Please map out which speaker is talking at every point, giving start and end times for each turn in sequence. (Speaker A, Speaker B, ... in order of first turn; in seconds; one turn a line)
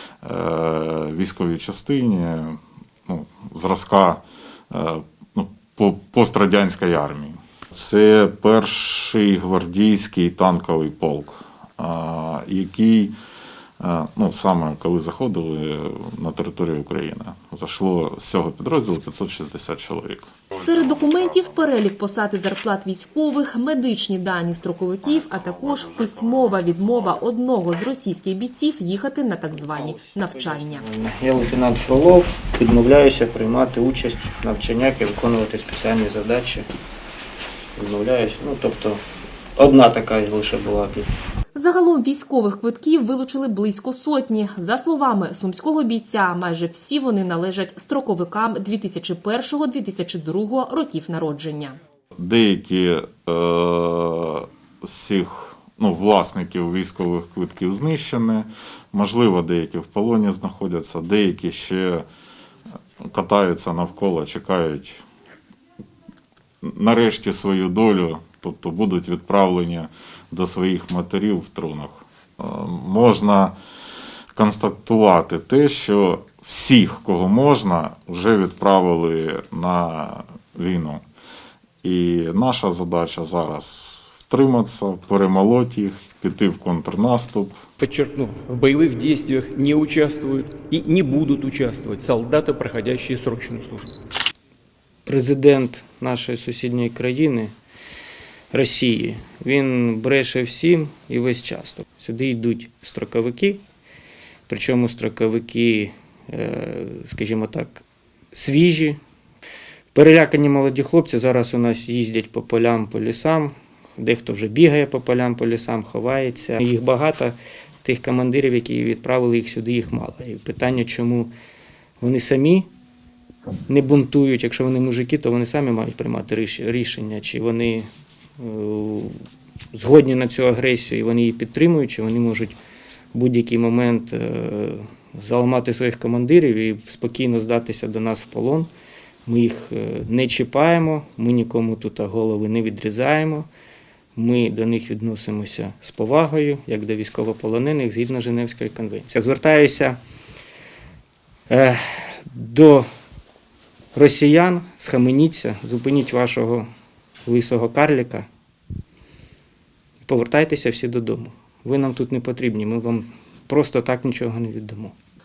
Speaker A: 0.2-13.1
Speaker A: 13.8-20.3
Speaker B: 20.5-30.9
Speaker A: 25.3-26.7
Speaker C: 29.6-36.6
Speaker C: 37.8-39.0
Speaker C: 39.6-41.1
Speaker B: 41.5-51.8
Speaker A: 52.2-62.0
Speaker A: 63.0-65.0
Speaker A: 66.6-73.5
Speaker A: 74.3-81.0
Speaker A: 81.8-87.6
Speaker D: 87.8-93.9
Speaker C: 95.0-97.5
Speaker C: 98.5-103.6
Speaker C: 104.5-109.0
Speaker C: 109.9-121.3
Speaker C: 122.0-122.7
Speaker C: 123.7-127.8
Speaker C: 128.4-129.2
Speaker C: 129.7-132.6
Speaker C: 133.1-138.7
Speaker C: 139.2-143.5
Speaker C: 144.2-150.0
Speaker C: 151.5-152.8
Speaker C: 153.9-156.7
Speaker C: 157.2-158.3
Speaker C: 160.0-164.9